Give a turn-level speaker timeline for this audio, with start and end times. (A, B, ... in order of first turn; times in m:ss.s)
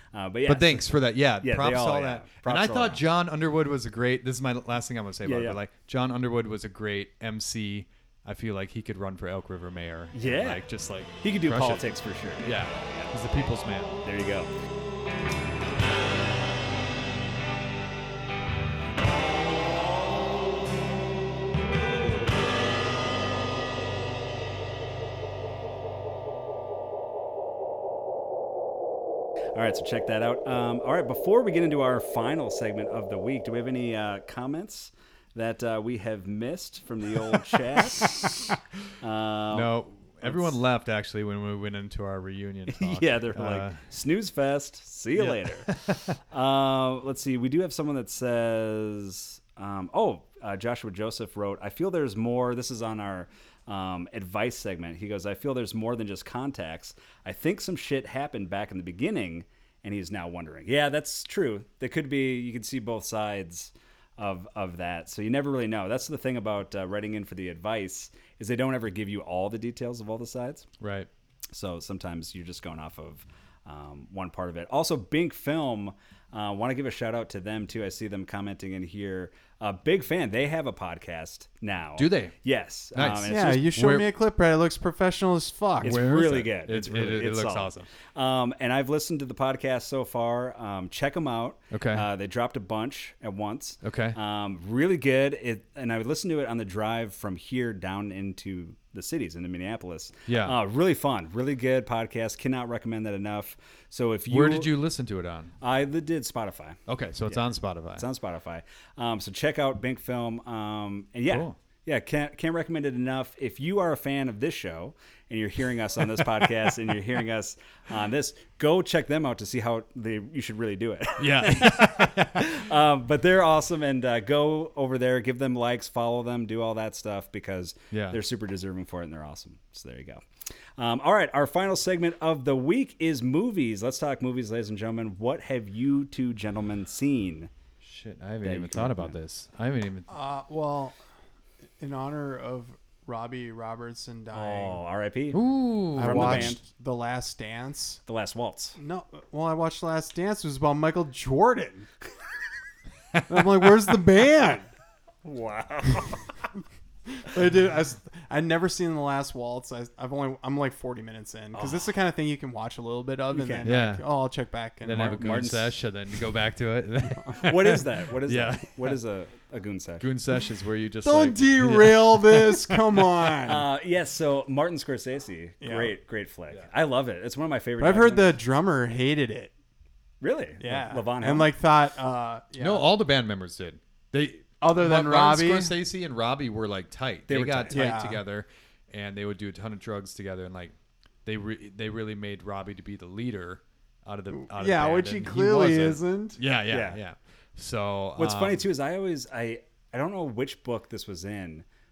0:00.1-0:03.0 A
0:00.4-0:14.0 B
0:05.2-0:05.6 A
0:10.1-0:10.6 A
0:11.2-0:14.5 A
0:29.5-0:40.5 A
0:39.5-0:43.8 B
0:42.7-0:45.7 A
0:45.2-0:46.2 B
0:46.2-1:10.7 A
1:10.8-1:11.1 B
1:11.5-1:23.6 A
1:22.0-1:22.4 B
1:22.9-1:24.1 B
1:23.3-1:26.3 C
1:25.8-1:44.7 A
1:25.8-1:27.9 B
1:31.7-1:32.0 B
1:33.8-1:34.2 B
1:40.3-1:40.6 B
1:44.3-1:45.5 B
1:45.6-2:10.2 A
1:46.9-1:48.0 B
1:51.3-1:51.6 B
2:01.2-2:02.6 B
2:07.9-2:08.2 B
2:10.8-2:17.5 A
2:17.8-2:20.1 B
2:18.4-2:19.1 A
2:20.1-2:21.0 C
2:21.8-2:24.8 C
2:24.3-2:25.4 A
2:25.3-2:26.5 B
2:25.9-2:26.6 A
2:26.0-2:28.0 C
2:28.1-2:28.8 A
2:28.8-2:31.9 C
2:33.3-2:34.7 C
2:35.2-2:36.3 A
2:37.2-2:45.5 C
2:41.5-2:41.8 A
2:43.3-2:43.7 A
2:43.6-2:44.0 B
2:44.8-2:49.0 B
2:45.1-2:45.7 A
2:47.2-2:50.0 A
2:50.0-2:53.3 B
2:51.0-2:53.6 C
2:53.4-2:58.4 A
2:55.6-2:55.9 C
2:57.8-2:59.5 C
3:00.2-3:01.5 A
3:00.6-3:02.9 C
3:02.6-3:18.6 B
3:04.6-3:05.8 C
3:07.3-3:07.9 A
3:07.7-3:08.2 C
3:14.3-3:16.4 C
3:16.7-3:17.0 A
3:18.2-3:21.6 A